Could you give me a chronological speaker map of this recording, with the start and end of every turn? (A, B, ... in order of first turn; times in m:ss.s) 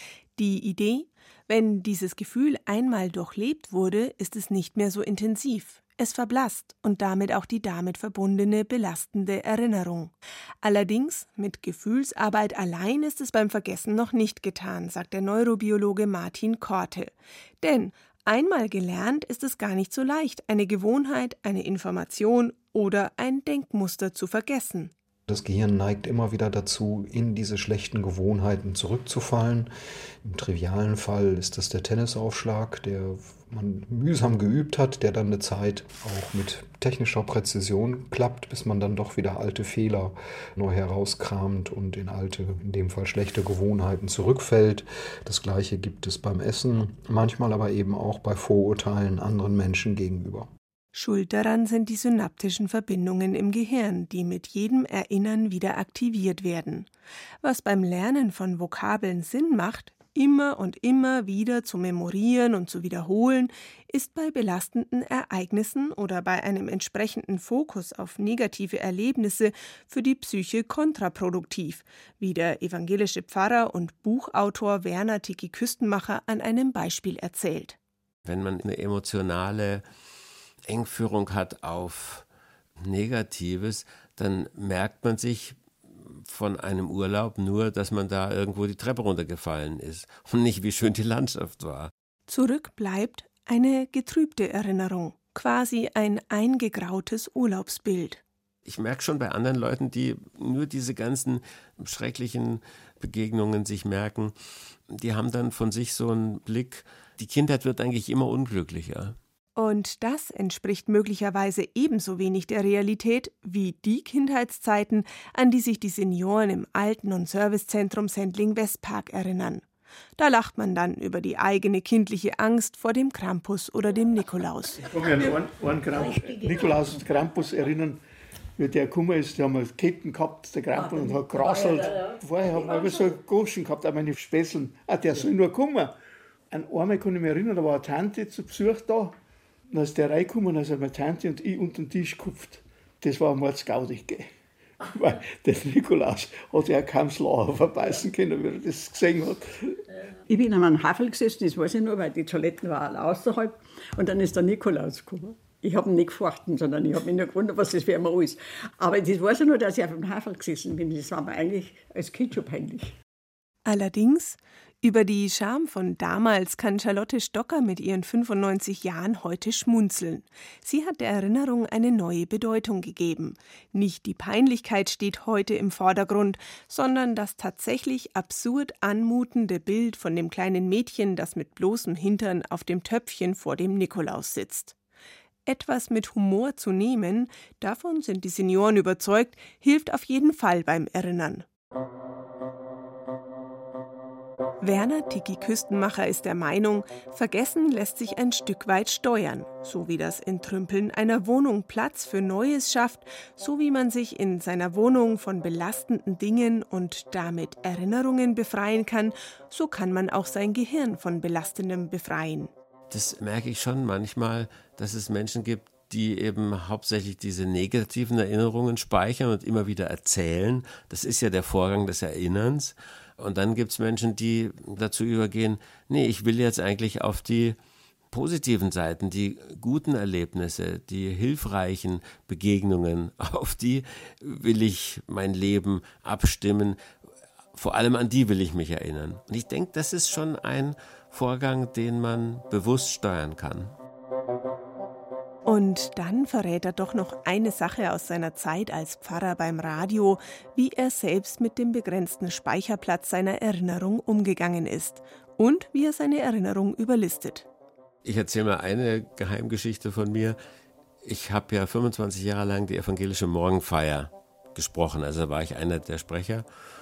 0:00.4-0:24.9 A
0:25.3-0:29.7 B
0:30.2-0:50.5 B
0:50.9-0:56.9 A
0:57.4-1:17.8 A
1:18.3-1:19.8 C
1:20.7-1:22.2 C
1:22.8-1:31.9 C
1:32.3-1:38.2 A
1:38.7-1:44.3 C
1:44.9-1:49.2 C
1:49.6-1:59.7 A
2:00.2-2:04.8 A
2:04.9-2:08.0 D
2:08.6-2:15.9 D
2:10.8-2:13.0 E
2:16.5-2:19.2 D
2:19.7-2:24.3 D
2:24.8-2:29.8 D
2:30.3-2:42.9 E
2:43.6-3:04.8 A
3:05.5-3:11.5 A
3:14.6-3:32.5 A
3:32.9-3:47.6 C
3:48.1-3:56.8 C
3:57.5-4:03.7 C
4:05.5-4:17.5 A
4:18.0-4:20.4 C
4:21.0-4:26.4 C